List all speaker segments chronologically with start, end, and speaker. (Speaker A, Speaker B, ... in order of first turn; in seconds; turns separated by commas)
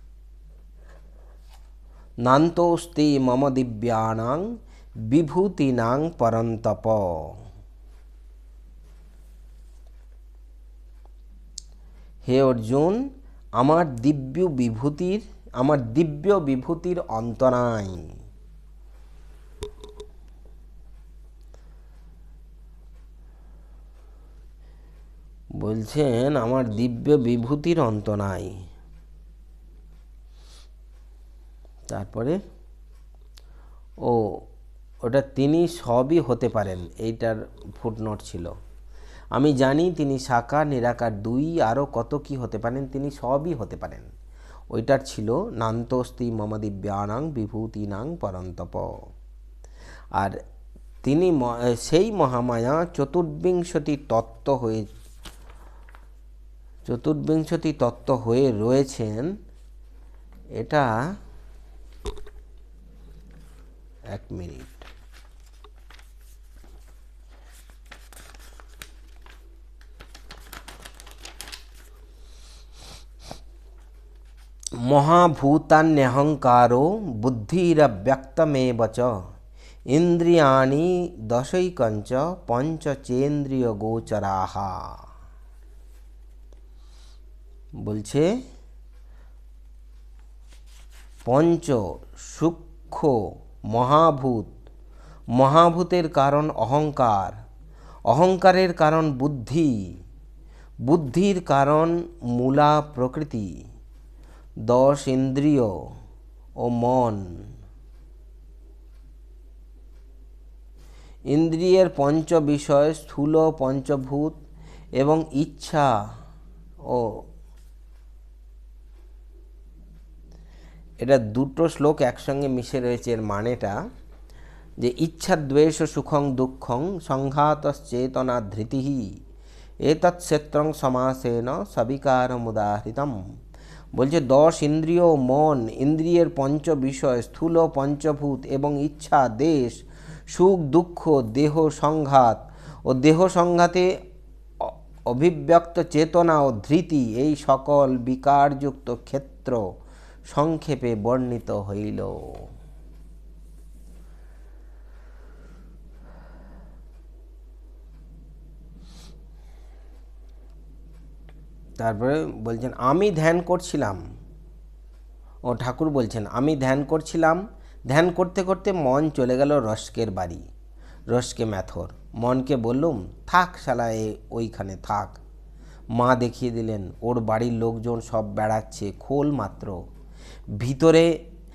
Speaker A: 2.2-4.4, Speaker A: 5.1-7.3, Speaker A: 12.2-13.0, Speaker A: 13.6-18.0, Speaker A: 25.6-28.5, Speaker A: 31.9-32.4, Speaker A: 35.0-38.5, Speaker A: 39.3-44.1, Speaker A: 44.7-49.0, Speaker A: 51.0-54.9, Speaker A: 56.9-59.3, Speaker A: 60.6-61.0, Speaker A: 64.1-64.9, Speaker A: 74.8-79.1, Speaker A: 79.9-84.9, Speaker A: 87.8-88.3, Speaker A: 91.2-93.2, Speaker A: 93.7-94.5, Speaker A: 95.4-97.4, Speaker A: 98.1-99.8, Speaker A: 100.8-103.5, Speaker A: 104.7-105.7, Speaker A: 106.6-107.3, Speaker A: 111.3-114.4, Speaker A: 115.0-115.9, Speaker A: 116.9-117.2, Speaker A: 121.0-123.8, Speaker A: 124.8-129.1, Speaker A: 129.8-133.2, Speaker A: 133.9-143.9, Speaker A: 144.6-149.6, Speaker A: 150.3-152.4, Speaker A: 161.8-164.0, Speaker A: 165.5-170.4, Speaker A: 171.1-175.2, Speaker A: 175.9-179.8, Speaker A: 180.6-181.1